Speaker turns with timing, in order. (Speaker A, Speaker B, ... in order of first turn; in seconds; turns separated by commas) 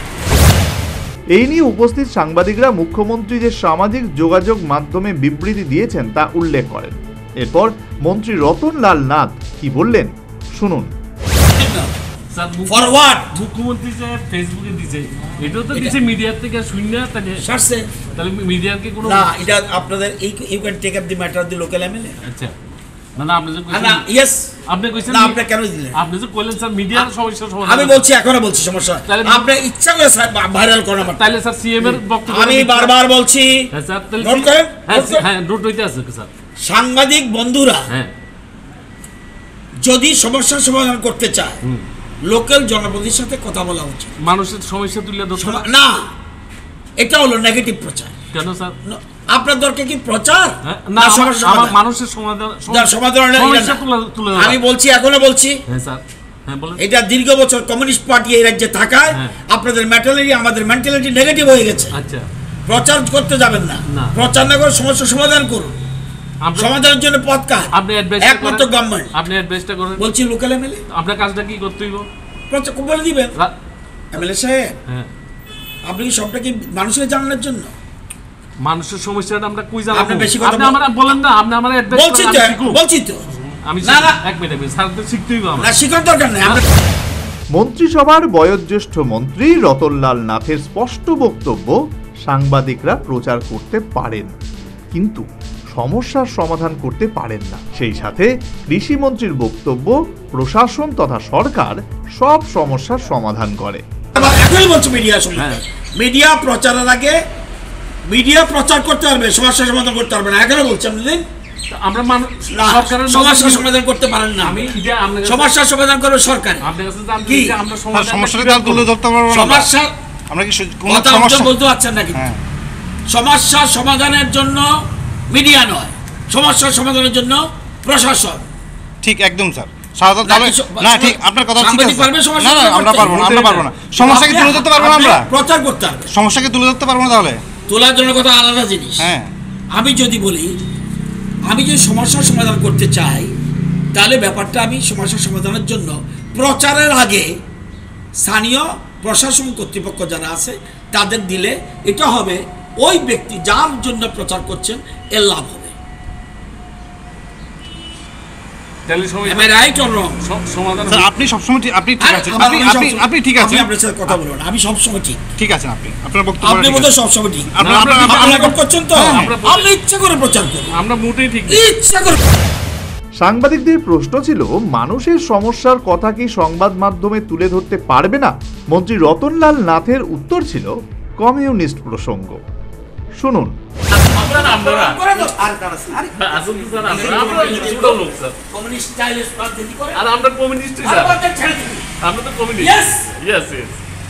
Speaker A: 1.4-10.9, Speaker B: 11.6-11.9, Speaker C: 12.3-17.4, Speaker B: 12.7-13.3, Speaker B: 17.4-17.9, Speaker C: 18.2-19.6, Speaker B: 19.0-22.2, Speaker C: 22.2-22.5, Speaker C: 23.2-24.1, Speaker B: 23.7-24.5, Speaker C: 24.7-25.4, Speaker B: 25.1-26.0, Speaker C: 25.9-28.1, Speaker B: 27.6-31.3, Speaker C: 29.1-29.5, Speaker C: 31.1-32.9, Speaker B: 31.8-33.6, Speaker C: 33.7-36.3, Speaker B: 34.2-35.2, Speaker B: 36.6-37.9, Speaker B: 39.8-41.6, Speaker B: 42.2-44.1, Speaker C: 44.2-45.7, Speaker B: 45.4-46.0, Speaker B: 47.0-48.1, Speaker C: 48.3-48.8, Speaker B: 48.9-51.8, Speaker C: 50.7-54.6, Speaker B: 52.7-53.8, Speaker B: 54.3-55.6, Speaker C: 55.7-56.8, Speaker B: 56.8-61.9, Speaker C: 62.0-62.2, Speaker B: 62.7-65.8, Speaker C: 66.5-66.8, Speaker B: 66.6-69.1, Speaker C: 67.7-70.0, Speaker B: 70.0-70.8, Speaker C: 70.9-72.1, Speaker B: 72.5-73.3, Speaker B: 74.1-74.7, Speaker B: 75.9-77.7, Speaker C: 78.6-82.8, Speaker B: 79.9-81.1, Speaker B: 81.9-83.2, Speaker C: 83.7-85.7, Speaker B: 83.8-84.2, Speaker B: 85.6-86.6, Speaker A: 87.6-91.8, Speaker A: 92.3-94.3, Speaker A: 94.9-103.8, Speaker B: 104.2-107.2, Speaker B: 108.1-111.2, Speaker C: 111.7-113.7, Speaker B: 112.5-114.7, Speaker C: 114.4-115.5, Speaker B: 115.2-116.6, Speaker C: 116.6-118.9, Speaker B: 117.2-117.6, Speaker D: 117.9-119.7, Speaker B: 119.3-119.9, Speaker D: 120.3-121.5, Speaker B: 120.9-122.3, Speaker D: 122.1-122.4, Speaker B: 123.1-124.7, Speaker B: 125.3-128.5, Speaker D: 129.0-135.3, Speaker B: 130.2-133.3, Speaker C: 133.2-133.7, Speaker B: 134.0-136.1, Speaker D: 136.1-137.4, Speaker B: 137.7-139.1, Speaker D: 139.0-139.3, Speaker B: 139.7-140.5, Speaker B: 141.5-143.3, Speaker B: 143.9-147.3, Speaker B: 148.2-155.7, Speaker C: 158.9-161.1, Speaker B: 159.2-160.2, Speaker D: 160.9-164.2, Speaker B: 162.0-165.2, Speaker D: 165.4-166.9, Speaker B: 166.4-170.8, Speaker D: 167.5-169.3, Speaker C: 167.6-168.1, Speaker C: 169.1-169.7, Speaker C: 170.8-171.6, Speaker B: 171.5-172.2, Speaker A: 173.2-180.7, Speaker A: 181.2-182.4, Speaker A: 183.2-183.5, Speaker C: 184.0-185.0, Speaker B: 184.0-190.0, Speaker C: 186.2-188.4, Speaker C: 189.9-191.2, Speaker B: 190.8-191.9, Speaker C: 192.0-193.8, Speaker B: 192.6-193.1